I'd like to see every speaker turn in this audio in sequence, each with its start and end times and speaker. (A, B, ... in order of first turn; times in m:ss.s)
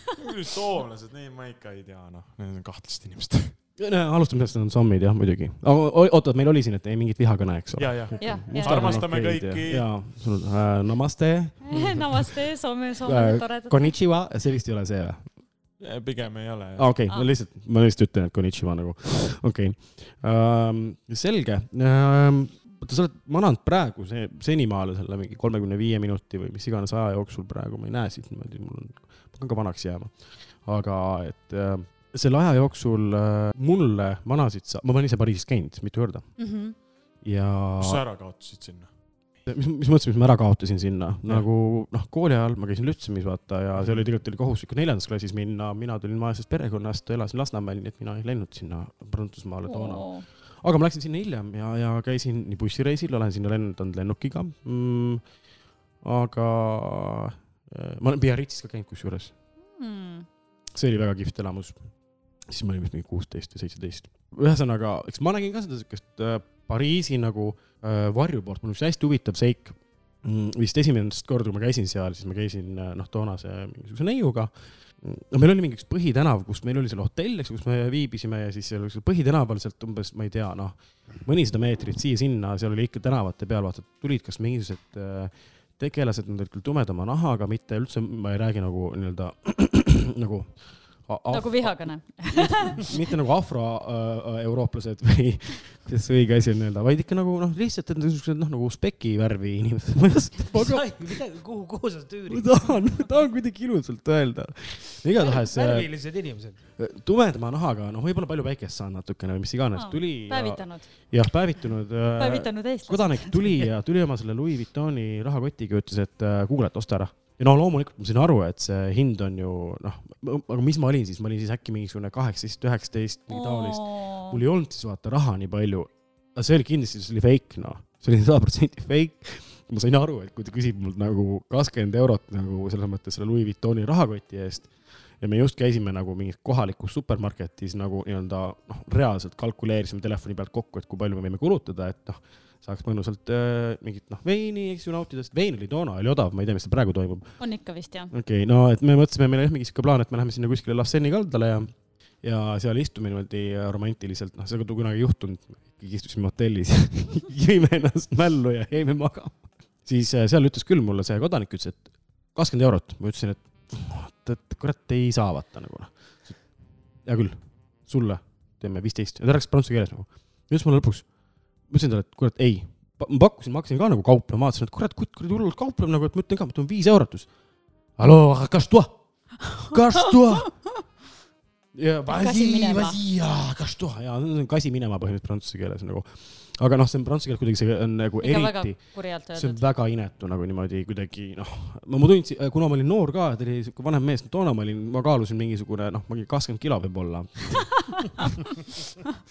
0:00.2-0:03.5 A
0:03.8-0:12.3 B
0:07.8-0:10.0 A
0:08.2-0:09.1 C
0:11.6-0:13.9 C
0:13.0-0:15.3 B
0:15.8-0:17.0 A
0:16.8-0:36.5 B
0:36.4-0:36.8 C
0:37.2-0:38.0 B
0:37.8-0:38.9 A
0:39.4-0:55.2 B
0:43.7-0:44.0 A
0:49.6-0:50.3 C
0:56.0-0:59.3 B
0:59.7-1:00.3 C
1:00.7-1:01.8 B
1:02.5-1:40.9 B
1:31.3-1:32.8 C
1:40.5-1:42.9 D
1:42.3-1:46.1 B
1:45.2-1:46.6 D
1:46.8-2:27.4 B
1:49.8-1:50.9 C
1:52.2-1:53.4 C
2:03.3-2:04.4 C
2:27.4-2:28.1 C
2:28.1-2:51.1 B
2:51.7-2:57.3 B
2:58.0-3:00.7 B
3:01.7-3:18.3 B
3:02.0-3:03.0 C
3:08.2-3:09.6 C